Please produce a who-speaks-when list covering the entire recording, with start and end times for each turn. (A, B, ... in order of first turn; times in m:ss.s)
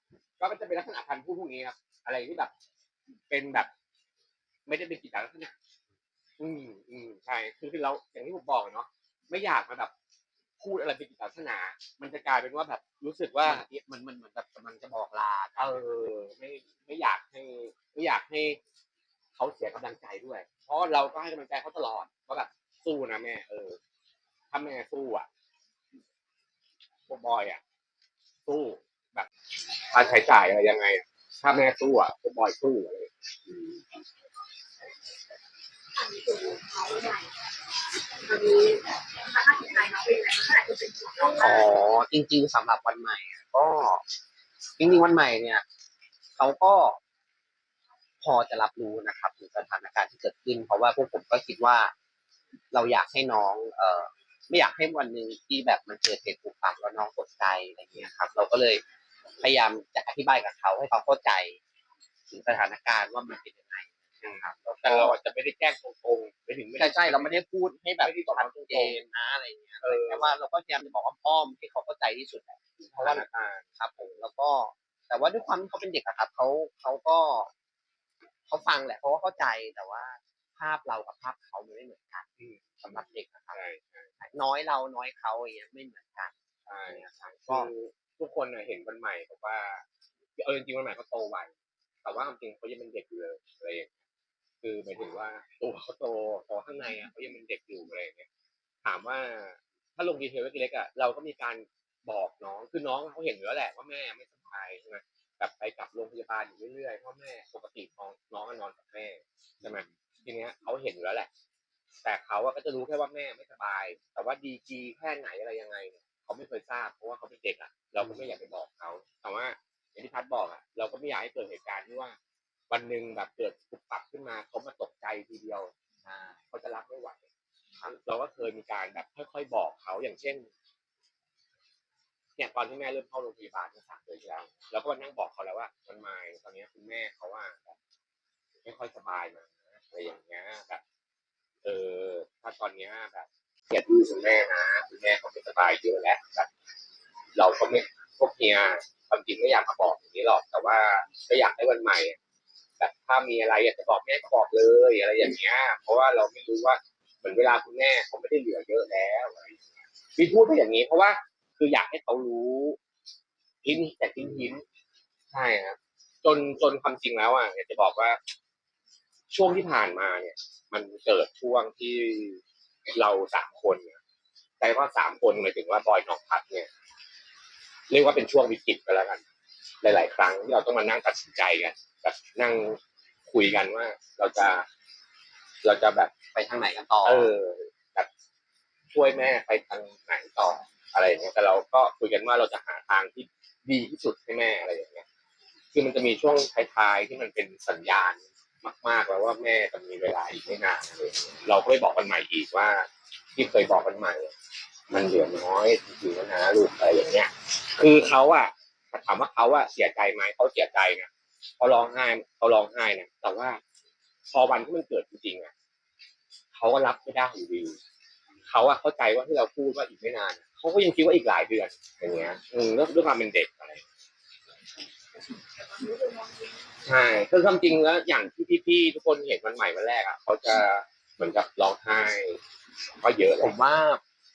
0:00.4-0:02.5 A
0:03.3-0:03.7 A
0:04.7-0:05.5 A
0:06.4-0:09.9 A
0:10.6-0:13.7 A
0:13.4-0:15.8 B
0:15.6-0:18.6 A
0:19.4-0:23.8 A
0:24.5-0:25.3 A
0:27.1-0:27.6 A
0:28.5-0:29.3 A
0:29.9-0:33.1 A
0:36.0-0:37.3 C
0:38.2-0:41.7 C
0:41.3-0:44.0 B
0:44.8-0:45.6 B
0:46.4-0:47.0 B
0:48.2-0:51.9 B
0:52.7-0:58.8 B
0:59.4-1:01.6 B
1:02.3-1:05.2 B
1:04.2-1:07.4 A
1:06.8-1:13.2 B
1:08.0-1:09.0 A
1:09.8-1:10.4 A
1:12.8-1:14.1 A
1:13.8-1:17.5 B
1:18.5-1:22.3 B
1:22.4-1:24.1 A
1:22.8-1:23.6 B
1:24.2-1:26.3 B
1:26.7-1:29.8 A
1:26.9-1:27.7 B
1:30.4-1:31.5 A
1:32.0-1:33.9 A
1:34.6-1:38.3 A
1:38.8-1:51.3 A
1:52.0-2:02.2 A
2:02.7-2:05.7 A
2:06.0-2:06.4 B
2:06.5-2:07.2 A
2:07.8-2:10.5 A
2:12.4-2:17.8 A
2:18.6-2:20.8 A
2:21.6-2:26.5 A
2:27.4-2:32.2 A
2:32.8-2:39.6 A
2:40.2-2:42.8 A
2:43.6-2:44.6 A
2:45.3-2:48.2 A
2:49.3-2:52.4 A
2:53.0-2:54.0 A
2:54.6-2:56.7 A
2:57.9-2:59.2 A
2:59.8-3:04.7 A
3:05.6-3:06.1 A
3:06.3-3:07.3 B
3:07.0-3:08.1 A
3:08.9-3:15.0 A
3:15.7-3:24.3 A
3:24.9-3:31.1 A
3:31.6-3:33.6 A
3:34.3-3:35.5 A
3:36.5-3:37.8 A
3:38.5-3:43.8 A
3:46.8-3:52.4 A
3:53.0-3:53.6 A
3:53.4-3:54.0 B